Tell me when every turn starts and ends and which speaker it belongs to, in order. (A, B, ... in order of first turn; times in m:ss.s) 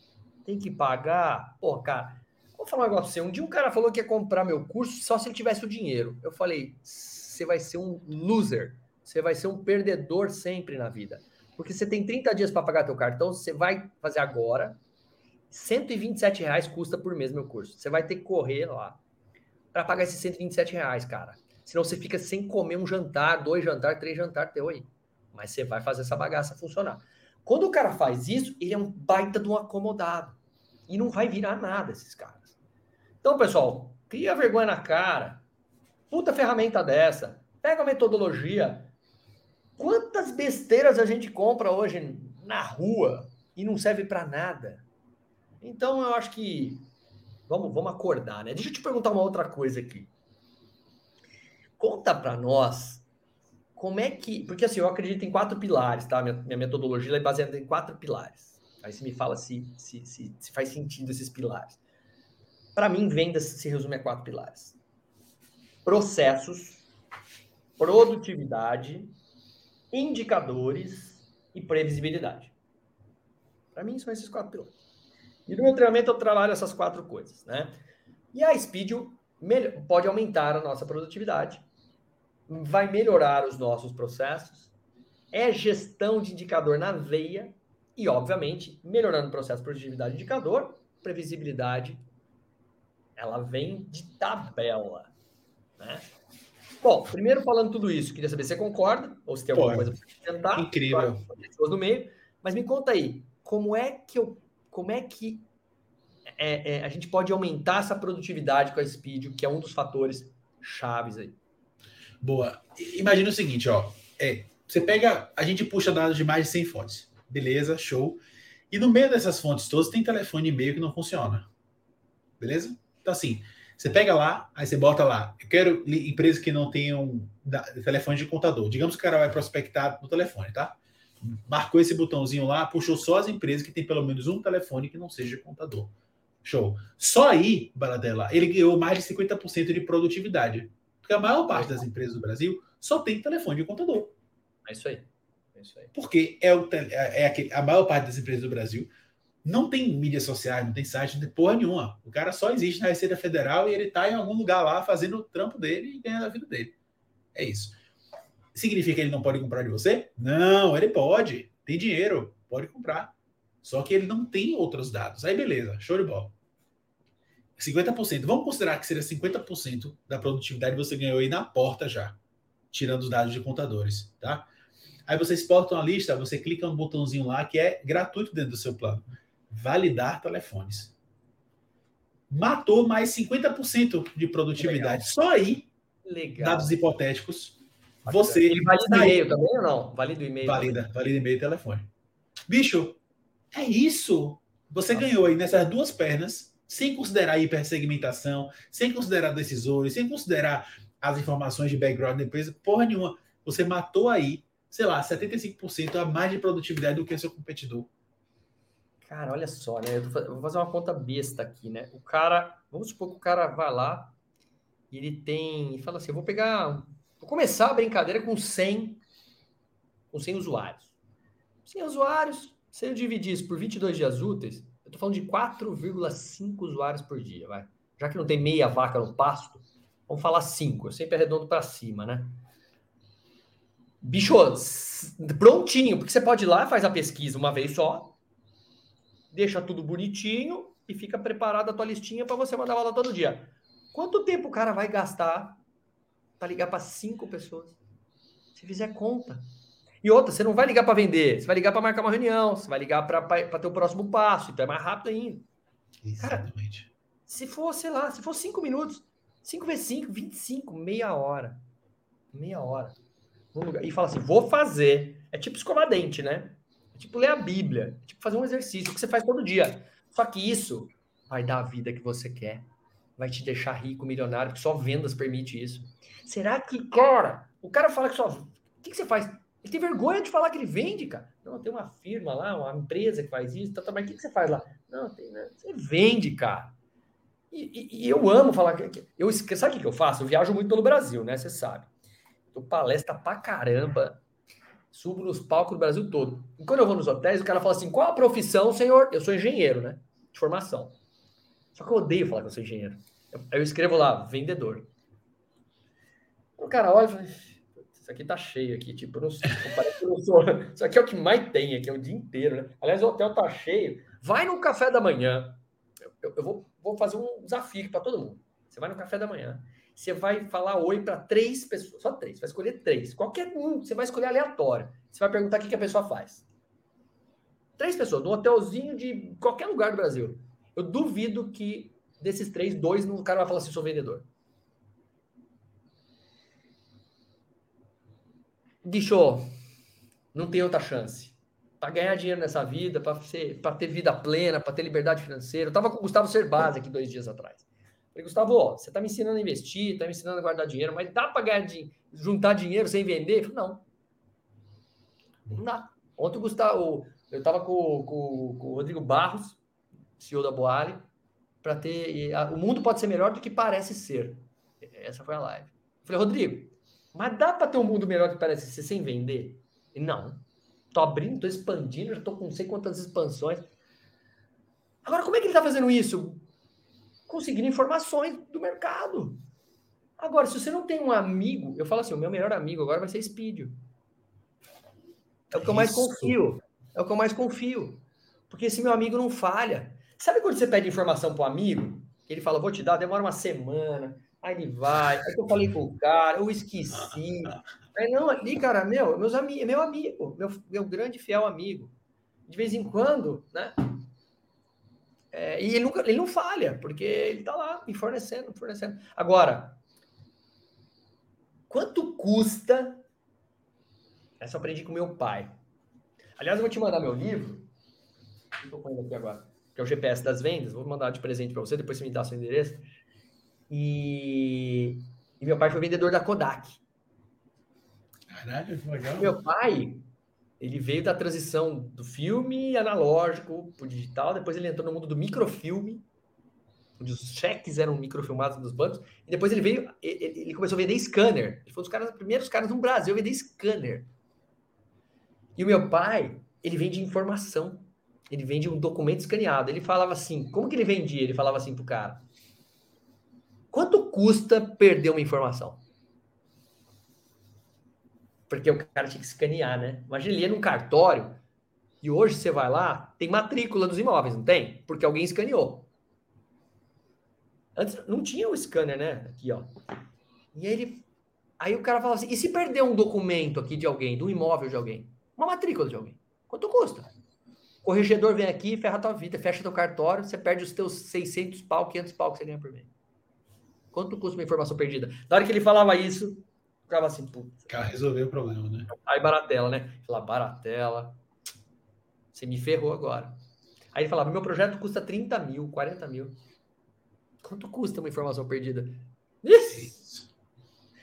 0:00.5-0:14.8 A
0:15.5-0:19.0 A
0:19.7-0:32.6 A
0:33.2-0:35.4 A
0:36.1-0:38.9 A
0:39.8-0:44.9 A
0:45.6-0:46.9 A
0:47.5-0:50.1 A
0:51.8-0:53.1 A
0:53.8-1:01.8 A
1:02.8-1:04.8 A
1:05.8-1:06.9 A
1:07.8-1:09.2 A
1:09.9-1:12.5 A
1:13.8-1:14.8 A
1:15.5-1:17.8 A
1:18.3-1:21.7 A
1:22.5-1:24.7 A
1:25.3-1:32.0 A
1:33.2-1:35.1 A
1:35.8-1:36.1 A
1:36.8-1:45.5 A
1:39.5-1:39.9 B
1:40.6-1:41.2 B
1:46.4-1:51.4 A
1:52.2-1:58.2 B
1:58.7-2:01.5 B
2:02.4-2:15.9 B
2:16.4-2:24.2 B
2:21.5-2:21.8 A
2:24.7-2:25.9 A
2:26.0-2:28.9 B
2:29.4-2:36.8 B
2:37.3-2:37.8 B
2:38.5-2:46.4 B
2:47.6-2:52.2 B
2:52.7-2:54.5 B
2:55.1-3:00.9 B
3:02.3-3:05.7 B
3:04.6-3:05.1 A
3:06.0-3:06.8 A
3:06.4-3:09.2 B
3:08.0-3:10.9 A
3:10.4-3:11.9 B
3:12.5-3:13.0 B
3:13.5-3:27.9 B
3:14.9-3:15.3 A
3:29.0-3:34.2 A
3:34.9-3:39.0 A
3:40.1-3:40.9 A
3:41.7-3:52.4 A
3:54.0-3:58.2 A
3:59.3-4:05.6 A
4:06.4-4:07.8 A
4:08.6-4:09.5 A
4:10.0-4:15.5 A
4:16.0-4:16.9 B
4:16.2-4:16.5 A
4:17.3-4:21.6 A
4:22.3-4:23.0 A
4:23.5-4:46.8 A
4:47.5-4:51.9 A
4:52.5-4:54.2 A
4:54.9-5:01.0 A
5:01.8-5:04.9 A
5:06.6-5:15.6 A
5:16.2-5:26.4 A
5:27.8-5:34.3 A
5:38.8-5:39.5 A
5:40.3-5:53.9 A
5:55.5-5:59.6 A
6:00.2-6:01.1 A
6:01.6-6:13.7 A
6:15.0-6:16.5 A
6:17.3-6:19.4 A
6:20.2-6:23.8 A
6:25.5-6:26.4 B
6:25.5-6:41.9 A
6:37.0-6:37.6 B
6:42.5-6:44.0 A
6:45.3-6:49.8 A
6:51.7-6:53.0 A
6:54.4-6:55.6 A
6:56.4-6:57.7 A
6:58.6-7:02.8 A
7:03.7-7:06.8 A
7:08.3-7:09.4 B
7:09.2-7:10.0 A
7:10.6-7:16.1 A
7:17.0-7:24.1 A
7:25.6-7:32.2 A
7:33.7-7:35.8 A
7:38.5-7:41.4 A
7:42.0-7:45.9 A
7:47.8-7:49.7 A
7:50.5-7:51.0 A
7:51.6-7:57.1 A
7:57.8-8:02.9 A
8:03.9-8:07.7 A
8:07.7-8:08.9 B
8:08.9-8:11.2 A
8:12.3-8:13.4 A
8:13.9-8:16.4 A
8:17.4-8:20.0 A
8:19.7-8:20.3 B